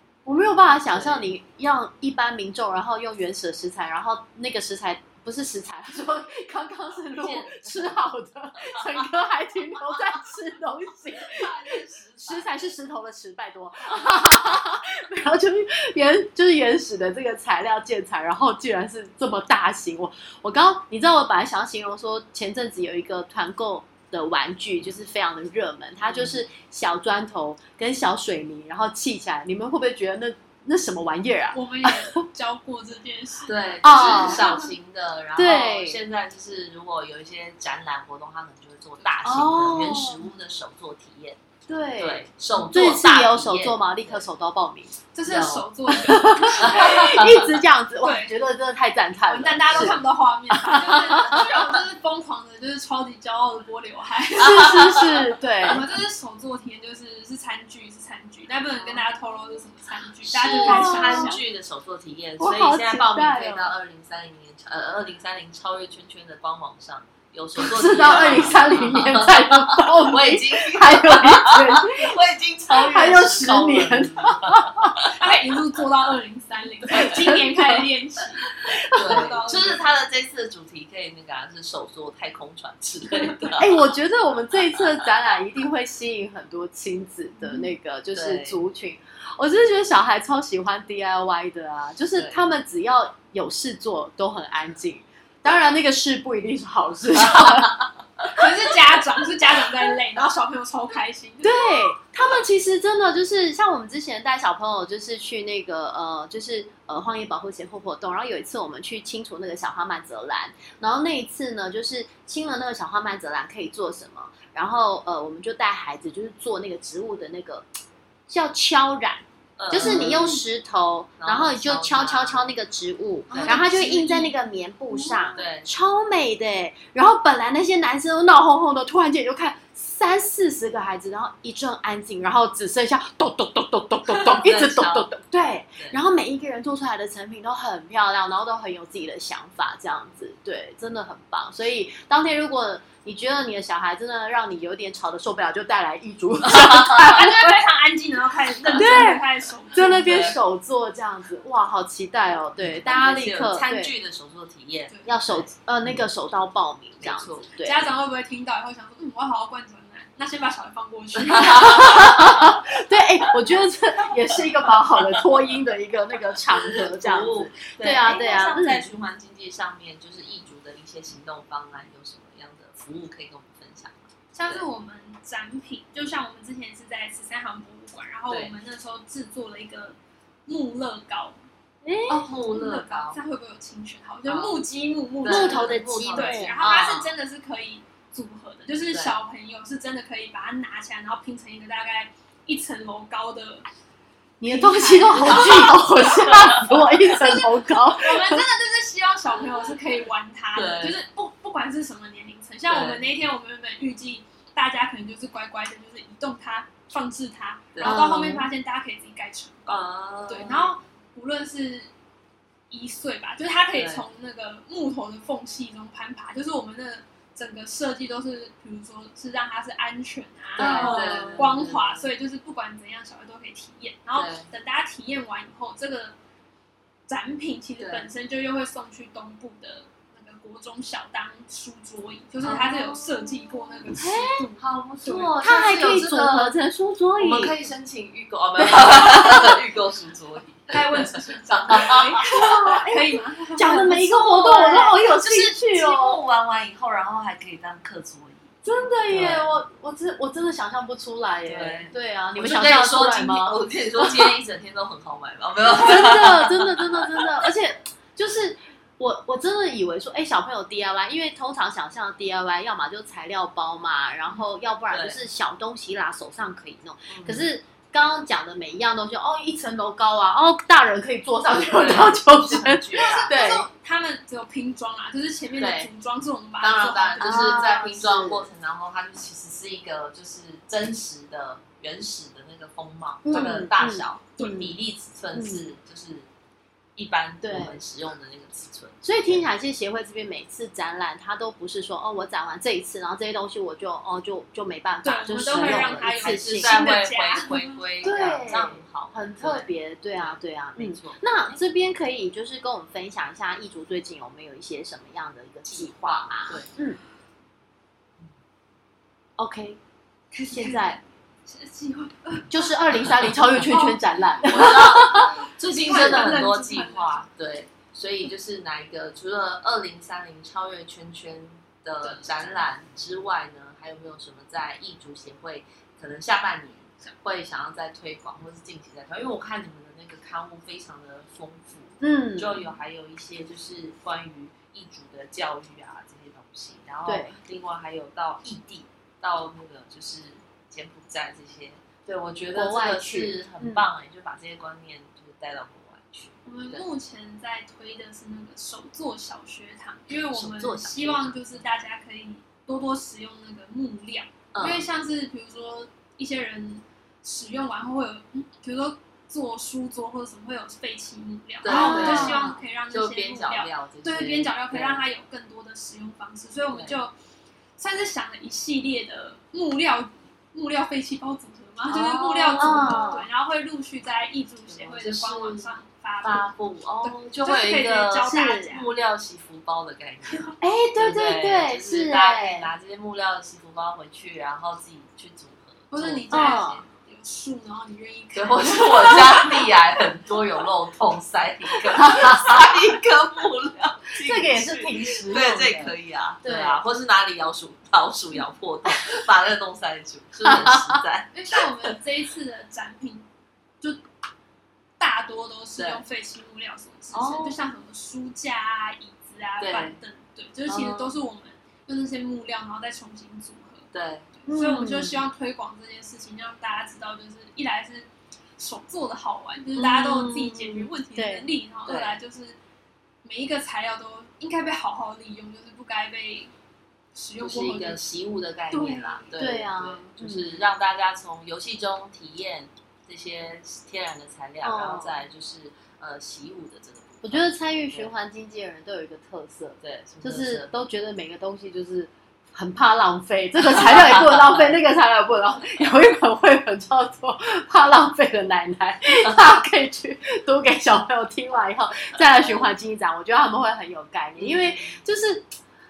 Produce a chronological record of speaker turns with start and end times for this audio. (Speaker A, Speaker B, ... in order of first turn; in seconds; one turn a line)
Speaker A: 0.2-32.1
Speaker B: 0.9-1.3
Speaker B: 7.1-8.0
Speaker B: 8.6-9.0
Speaker B: 11.1-12.6
Speaker B: 26.0-26.4
Speaker C: 31.5-34.6
Speaker B: 33.5-41.4
Speaker A: 33.8-34.4
Speaker A: 35.4-36.0
Speaker A: 39.2-40.2
Speaker A: 41.7-44.9
Speaker B: 42.0-44.2
Speaker C: 45.1-47.2
Speaker B: 45.2-45.7
Speaker A: 45.9-51.7
Speaker B: 46.6-47.5
Speaker C: 48.0-48.3
Speaker C: 49.3-61.4
Speaker B: 49.7-50.0
Speaker A: 54.4-55.8
Speaker B: 60.2-75.1
Speaker A: 60.4-61.4
Speaker A: 62.4-63.7
Speaker A: 67.6-72.2
Speaker A: 72.7-75.0
Speaker C: 75.0-79.9
Speaker A: 76.9-77.8
Speaker A: 78.6-79.4
Speaker B: 78.9-83.8
Speaker A: 83.6-97.8
Speaker B: 88.1-88.6
Speaker B: 92.1-92.5
Speaker B: 97.2-98.2
Speaker C: 98.3-102.0
Speaker A: 101.4-117.7
Speaker A: 118.3-147.5
Speaker B: 119.6-120.4
Speaker C: 119.8-120.2
Speaker B: 121.2-122.5
Speaker B: 123.3-123.6
Speaker C: 123.4-124.3
Speaker C: 125.0-125.3
Speaker B: 125.3-125.7
Speaker B: 134.1-135.1
Speaker C: 146.6-150.3
Speaker A: 148.7-153.9
Speaker B: 149.8-150.4
Speaker B: 152.6-156.0
Speaker C: 154.9-155.2
Speaker A: 155.1-157.9
Speaker B: 157.0-157.5
Speaker C: 157.6-162.1
Speaker B: 161.3-162.5
Speaker A: 161.3-168.9
Speaker B: 166.6-174.6
Speaker C: 174.3-181.4
Speaker B: 178.3-178.5
Speaker A: 181.8-182.2
Speaker B: 182.1-183.2
Speaker C: 182.5-193.7
Speaker B: 184.2-184.6
Speaker B: 185.2-186.5
Speaker A: 185.2-187.1
Speaker B: 188.9-189.2
Speaker A: 194.4-198.4
Speaker C: 194.4-195.9
Speaker B: 195.3-196.9
Speaker C: 197.1-211.9
Speaker B: 200.5-201.0
Speaker B: 202.7-203.1
Speaker B: 207.7-208.3
Speaker A: 207.8-208.4
Speaker B: 209.7-210.7
Speaker C: 212.7-226.2
Speaker B: 213.7-214.0
Speaker A: 220.6-221.5
Speaker B: 220.6-222.1
Speaker B: 224.1-224.5
Speaker C: 227.1-235.3
Speaker B: 227.8-228.1
Speaker B: 232.4-233.0
Speaker A: 233.9-234.4
Speaker B: 234.6-236.6
Speaker A: 235.4-237.5
Speaker B: 237.2-242.5
Speaker A: 238.6-239.5
Speaker C: 240.7-244.8
Speaker A: 242.2-246.2
Speaker B: 243.7-249.6
Speaker A: 248.6-254.4
Speaker B: 251.4-257.3
Speaker A: 255.6-273.7
Speaker B: 264.9-265.2
Speaker B: 267.1-267.5
Speaker B: 271.6-273.3
Speaker C: 272.9-277.7
Speaker B: 275.6-275.9
Speaker B: 276.6-286.3
Speaker A: 277.2-278.5
Speaker A: 283.2-284.7
Speaker C: 283.3-283.7
Speaker C: 284.4-284.7
Speaker A: 285.3-285.6
Speaker B: 287.0-289.5
Speaker A: 287.4-287.8
Speaker A: 289.0-296.8
Speaker C: 295.0-297.8
Speaker B: 295.5-301.2
Speaker A: 298.0-307.0
Speaker B: 305.7-306.8
Speaker A: 309.4-309.8
Speaker C: 310.3-312.7
Speaker A: 310.4-311.0
Speaker A: 312.5-315.4
Speaker C: 313.5-317.3
Speaker B: 314.4-346.8
Speaker C: 322.0-322.6
Speaker A: 332.0-332.6
Speaker A: 337.1-337.3
Speaker A: 342.5-343.9
Speaker C: 346.4-367.1
Speaker B: 350.3-351.6
Speaker B: 354.5-354.9
Speaker B: 361.6-365.0
Speaker A: 361.6-362.6
Speaker B: 366.7-367.0
Speaker C: 367.8-378.9
Speaker B: 371.9-373.2
Speaker A: 372.6-373.3
Speaker B: 374.7-375.7
Speaker B: 376.2-386.8
Speaker A: 378.2-378.7
Speaker C: 380.3-380.5
Speaker A: 380.6-382.7
Speaker C: 385.9-389.6
Speaker A: 386.3-386.8
Speaker B: 388.3-401.9
Speaker A: 392.0-392.7
Speaker A: 394.2-396.8
Speaker A: 400.5-400.8
Speaker C: 401.3-403.3
Speaker C: 405.0-422.6
Speaker B: 405.8-406.0
Speaker B: 407.1-407.6
Speaker B: 409.6-410.0
Speaker B: 413.9-414.3
Speaker A: 414.5-415.2
Speaker B: 419.8-420.9
Speaker A: 421.1-421.5
Speaker B: 421.9-422.2
Speaker C: 423.2-426.5
Speaker C: 427.1-428.0
Speaker B: 427.4-438.1
Speaker C: 428.7-429.3
Speaker A: 429.4-430.6
Speaker A: 434.6-435.2
Speaker A: 437.2-455.5
Speaker B: 439.8-440.7
Speaker B: 443.7-444.8
Speaker B: 454.4-454.9